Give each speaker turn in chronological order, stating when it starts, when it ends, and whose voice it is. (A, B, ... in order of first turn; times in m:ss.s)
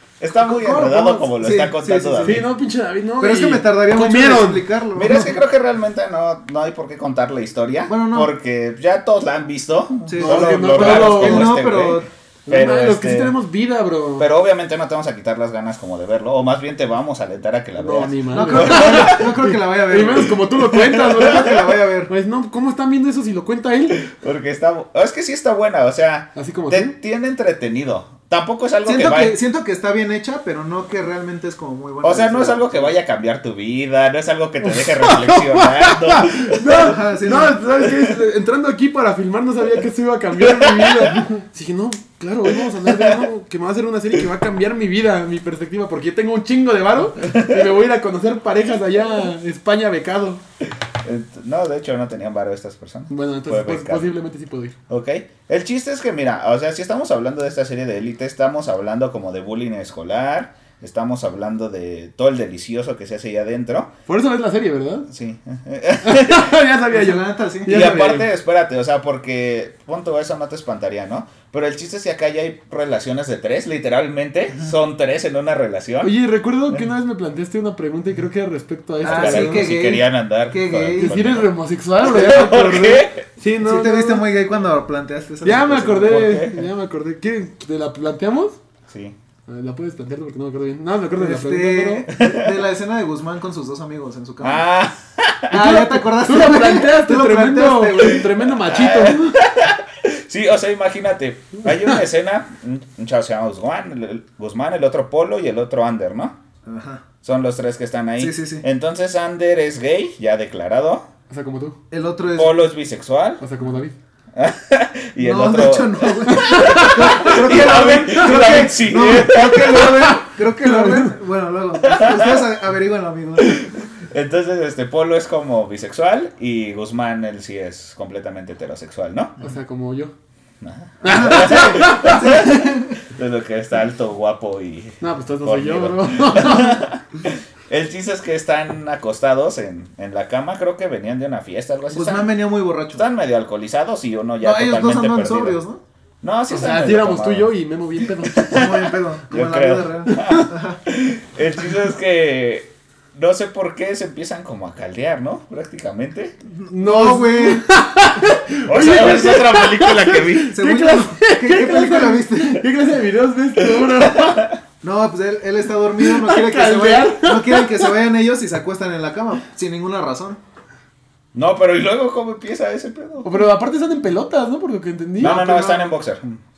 0:00.2-0:02.5 A
0:00.4-0:02.5 B
0:02.2-0:04.7 C
0:03.2-0:05.3 B
0:05.0-0:13.4 A
0:07.9-0:08.3 B
0:10.1-0:12.1 B
0:10.2-0:11.6 C
0:12.5-0:14.3 C
0:14.2-0:19.3 A
0:17.8-0:24.0 C
0:18.3-0:20.5 B
0:20.7-0:21.1 A
0:21.0-0:22.1 B
0:24.0-0:29.4 A
0:26.4-0:27.0 C
0:28.8-0:33.0 B
0:32.0-0:37.0 A
0:34.6-0:50.4 C
0:36.7-0:37.6 B
0:40.4-0:41.2 A
0:42.7-0:43.2 A
0:47.2-0:47.7 A
0:51.0-0:54.1 A
0:53.1-0:54.8 C
0:54.9-1:03.9 A
1:04.1-1:05.1 C
1:05.1-1:06.6 A
1:06.0-1:08.3 C
1:06.9-1:08.2 B
1:07.7-1:16.1 A
1:16.0-1:19.7 C
1:19.0-1:21.2 B
1:19.0-1:23.2 A
1:21.0-1:24.2 C
1:23.6-1:26.3 B
1:25.4-1:28.6 C
1:26.0-1:26.7 A
1:28.9-1:29.2 A
1:29.5-1:32.1 C
1:31.2-1:34.7 B
1:32.2-1:32.5 A
1:34.4-1:35.6 A
1:35.5-1:38.3 B
1:35.5-1:39.4 C
1:38.6-1:46.4 A
1:46.7-1:47.1 B
1:47.2-1:51.1 A
1:48.2-1:48.7 B
1:51.3-1:51.8 C
1:51.9-1:52.6 B
1:52.3-1:53.4 A
1:53.4-1:54.0 C
1:54.3-2:00.1 A
1:55.2-2:03.7 B
1:56.3-2:01.1 C
2:01.8-2:02.4 A
2:03.4-2:09.4 A
2:09.4-2:10.1 C
2:10.6-2:22.3 A
2:11.0-2:12.3 C
2:11.0-2:13.0 B
2:15.0-2:16.9 C
2:21.9-2:23.0 B
2:22.9-2:25.6 A
2:24.4-2:25.8 B
2:26.2-2:27.5 A
2:26.5-2:28.9 C
2:28.2-2:36.4 A
2:28.5-2:30.8 B
2:30.1-2:30.5 C
2:36.5-2:37.7 B
2:36.7-2:44.6 C
2:38.6-2:40.6 A
2:40.5-2:42.7 B
2:43.6-2:44.6 A
2:44.8-2:50.4 B
2:46.0-2:47.9 C
2:51.3-2:53.3 A
2:53.2-2:55.4 C
2:55.2-2:56.0 B
2:55.2-2:56.4 A